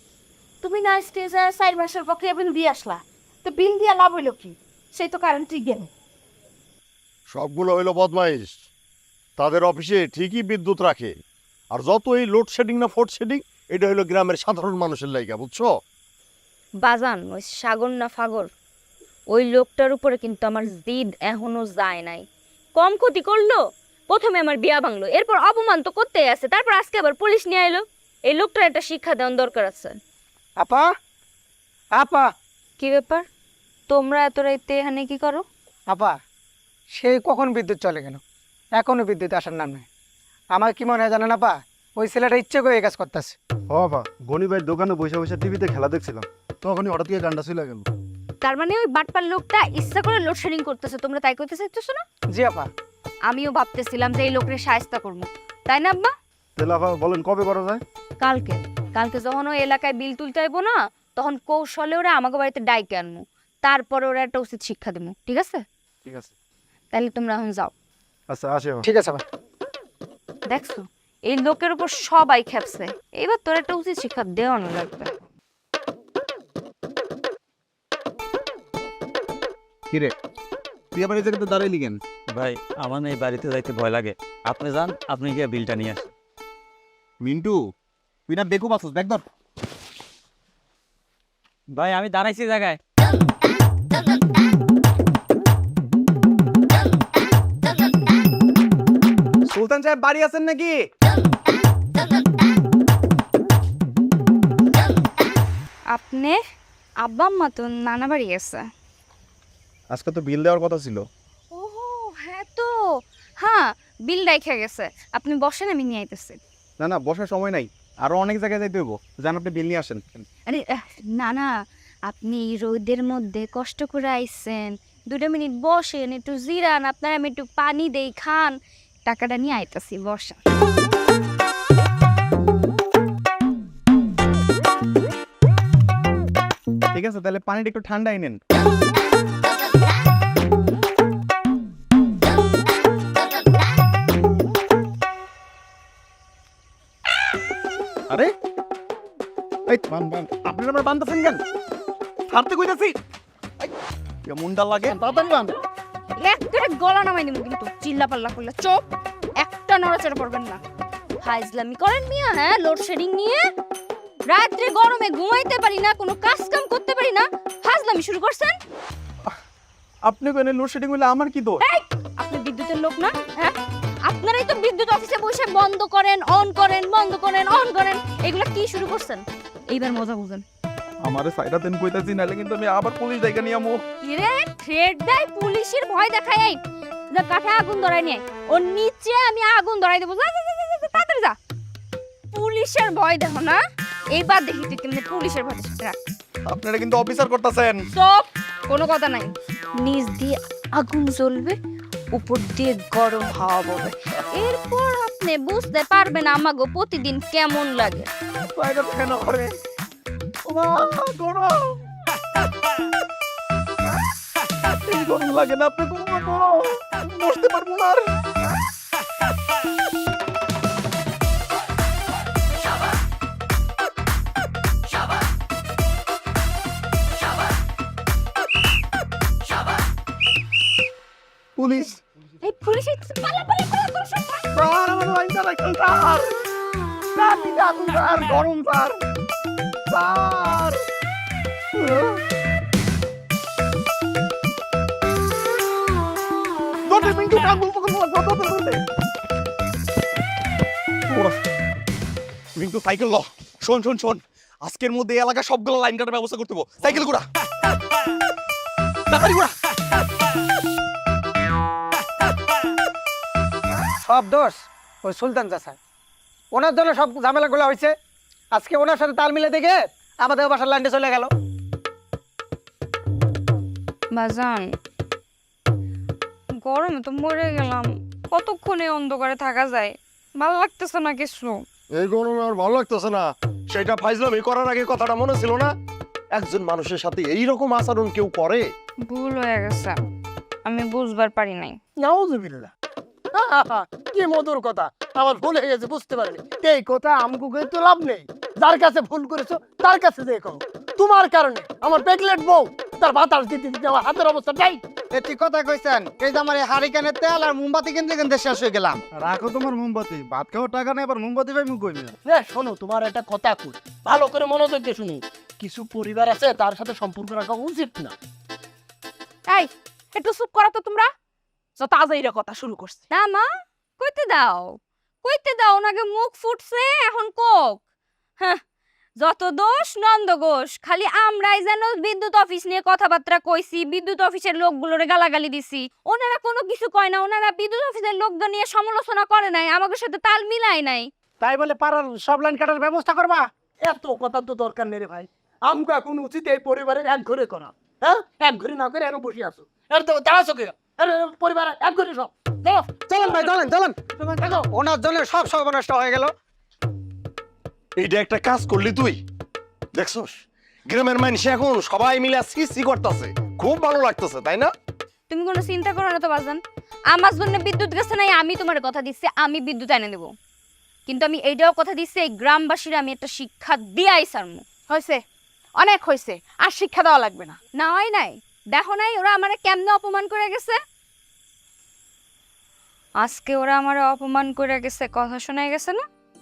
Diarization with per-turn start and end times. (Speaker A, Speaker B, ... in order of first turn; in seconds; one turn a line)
Speaker A: 0.6-5.9
Speaker B: 7.3-8.4
Speaker B: 9.4-11.1
Speaker B: 11.8-15.6
Speaker C: 16.8-18.5
Speaker C: 19.3-22.2
Speaker C: 22.8-30.0
Speaker D: 30.6-30.9
Speaker D: 32.0-32.3
Speaker C: 32.8-33.3
Speaker C: 33.9-35.4
Speaker D: 36.9-38.2
Speaker D: 38.8-39.9
Speaker D: 40.5-43.4
Speaker E: 43.7-47.8
Speaker C: 48.4-52.0
Speaker D: 52.3-52.7
Speaker C: 53.3-56.1
Speaker E: 56.6-57.8
Speaker C: 58.2-65.6
Speaker C: 66.9-67.7
Speaker E: 68.3-68.9
Speaker D: 68.8-69.2
Speaker C: 70.5-75.1
Speaker F: 80.9-82.0
Speaker G: 82.3-86.1
Speaker F: 87.2-87.6
Speaker F: 88.3-89.2
Speaker G: 91.7-92.8
Speaker F: 99.5-100.9
Speaker C: 105.9-106.4
Speaker C: 107.0-108.6
Speaker F: 109.9-111.0
Speaker C: 111.5-112.7
Speaker C: 113.4-116.4
Speaker F: 116.8-120.2
Speaker C: 120.5-121.5
Speaker C: 122.1-128.6
Speaker C: 129.1-130.4
Speaker F: 136.9-138.4
Speaker F: 149.7-151.4
Speaker F: 152.3-152.9
Speaker F: 154.3-155.4
Speaker C: 156.2-158.8
Speaker C: 159.4-160.6
Speaker C: 161.2-163.4
Speaker C: 164.3-168.6
Speaker F: 170.1-171.6
Speaker C: 171.6-180.4
Speaker F: 181.1-183.8
Speaker C: 184.0-186.6
Speaker C: 187.1-191.4
Speaker C: 192.3-193.6
Speaker C: 194.1-196.0
Speaker F: 196.5-197.8
Speaker C: 197.9-201.6
Speaker C: 202.2-208.1
Speaker F: 208.6-209.5
Speaker F: 210.4-211.7
Speaker F: 214.7-218.1
Speaker F: 231.6-232.0
Speaker C: 232.4-234.4
Speaker F: 234.5-236.3
Speaker F: 237.2-239.0
Speaker F: 239.9-240.8
Speaker F: 241.8-242.2
Speaker F: 246.9-248.8
Speaker F: 251.1-251.3
Speaker F: 252.6-257.2
Speaker F: 259.1-259.5
Speaker D: 264.0-265.8
Speaker D: 266.5-267.9
Speaker D: 268.6-271.3
Speaker C: 274.1-274.7
Speaker C: 276.6-281.6
Speaker B: 282.0-283.2
Speaker B: 283.8-285.7
Speaker B: 286.4-288.6
Speaker C: 289.1-290.0
Speaker C: 290.7-291.8
Speaker H: 292.0-292.7
Speaker H: 293.4-304.8
Speaker I: 305.1-309.0
Speaker E: 309.1-312.1
Speaker H: 312.2-318.1
Speaker A: 319.5-321.1
Speaker A: 321.8-323.0
Speaker C: 323.1-323.5
Speaker C: 324.0-327.8
Speaker C: 329.2-341.1
Speaker D: 341.4-343.4
Speaker H: 343.8-353.5
Speaker D: 353.1-354.1
Speaker H: 354.4-354.6
Speaker D: 354.7-356.3
Speaker B: 358.0-359.2
Speaker B: 360.0-360.3
Speaker B: 360.9-364.7
Speaker C: 365.3-366.6
Speaker C: 367.1-370.3
Speaker C: 371.1-374.6
Speaker A: 374.9-375.2
Speaker A: 375.8-377.6
Speaker C: 377.7-380.8
Speaker C: 383.2-386.0